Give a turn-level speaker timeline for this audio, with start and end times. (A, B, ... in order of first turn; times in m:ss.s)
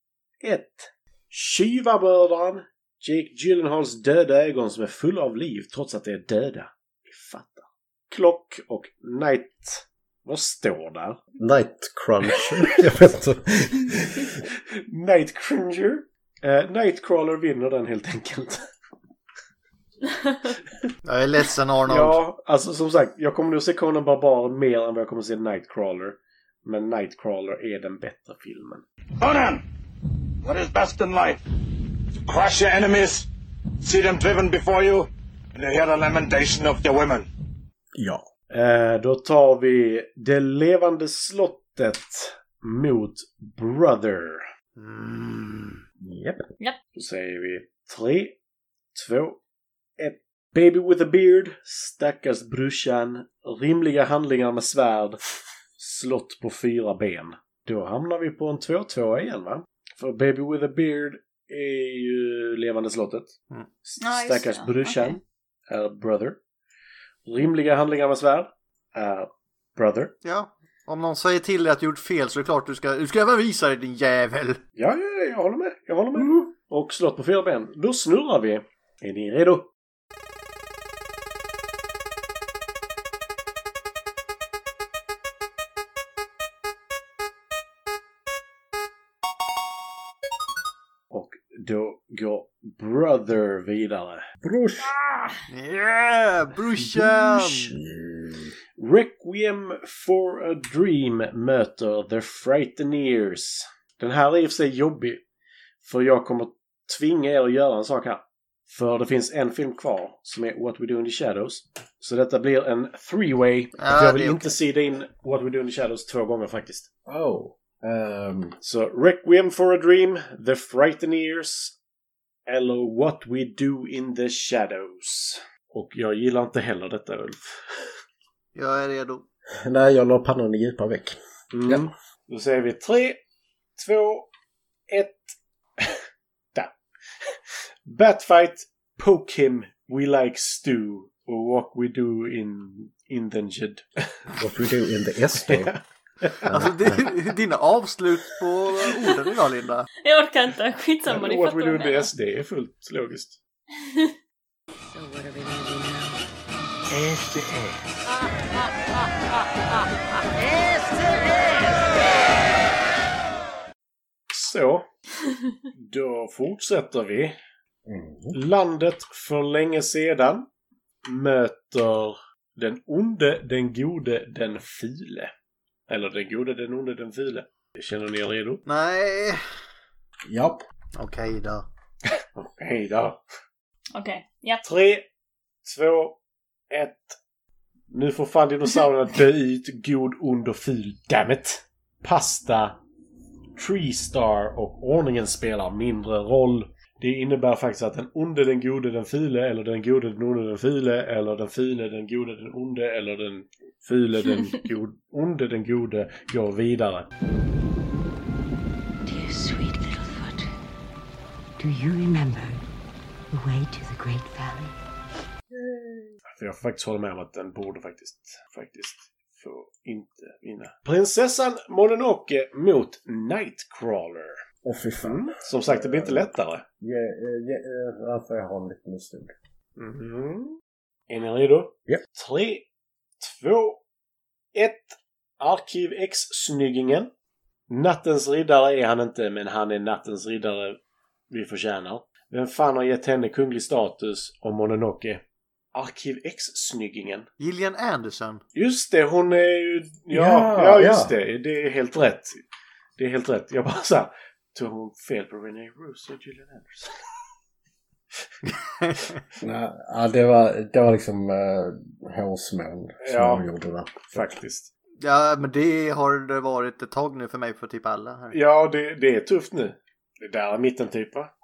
0:00.4-0:11.2 A
0:11.4-0:14.4 B
0:14.5-0:18.6 A
0:21.0-0:22.2 C
0:21.8-0:28.8 A
0:29.2-0:29.6 D
0:30.4-0:31.4 D
0:32.1-0:33.3 D
0:33.8-0:37.3 D
0:37.9-0:38.2 B
0:38.5-0:44.4 A
0:44.8-0:45.7 C
0:46.0-0:46.4 B
0:47.0-0:48.4 A
0:48.9-0:49.4 A
0:50.0-0:55.2 A
0:55.8-1:03.3 A
1:03.8-1:06.4 A
1:04.0-1:05.2 E
1:07.2-1:10.1 A
1:10.2-1:14.6 C
1:14.8-1:19.7 A
1:16.2-1:16.5 B
1:31.1-1:34.3 A
1:34.4-1:35.0 B
1:35.5-1:37.7 C
1:36.8-1:38.5 B
1:38.8-1:45.2 A
1:45.8-1:56.9 A
1:53.8-1:54.5 C
1:57.1-1:58.6 B
1:58.6-2:01.7 A
2:02.5-2:07.9 A
2:08.5-2:09.2 C
2:09.6-2:11.9 B
2:11.5-2:13.2 A
2:13.8-2:14.3 A
2:14.9-2:16.0 A
2:17.8-2:24.2 A
2:24.4-2:25.7 B
2:25.3-2:26.7 A
2:26.4-2:27.0 B
2:26.5-2:29.9 C
2:30.0-2:32.1 E
2:31.1-2:33.4 A
2:33.8-2:34.1 E
2:34.9-2:36.2 F
2:36.9-2:37.8 A
2:44.3-2:44.8 A
2:45.7-2:47.4 A
2:47.8-2:48.4 B
2:48.3-2:50.4 A
2:51.0-2:55.3 A
2:55.9-2:58.6 A
2:58.6-2:59.4 C
3:00.3-3:00.6 B
3:01.0-3:01.7 C
3:02.4-3:03.2 A
3:03.9-3:04.6 E
3:04.6-3:05.0 A
3:05.6-3:06.2 A
3:06.7-3:07.2 A
3:07.9-3:12.8 A
3:13.6-3:27.1 A
3:29.0-3:30.5 F
3:31.6-3:32.6 F
3:33.3-3:34.7 F
3:35.5-3:36.2 B
3:36.3-3:44.4 A
3:44.6-3:49.3 B
3:45.0-3:46.6 A
3:49.8-3:50.5 A
3:51.1-3:52.6 A
3:53.2-3:53.8 A
3:54.5-3:57.1 A
3:57.7-4:00.8 A
4:01.3-4:05.2 A
4:05.7-4:07.3 A
4:07.4-4:08.4 C
4:08.5-4:12.4 A
4:10.1-4:11.1 B
4:13.0-4:17.0 A
4:18.8-4:19.1 C
4:19.4-4:24.3 B
4:23.0-4:23.4 A
4:24.1-4:24.7 A
4:25.0-4:28.4 C
4:28.3-4:31.3 A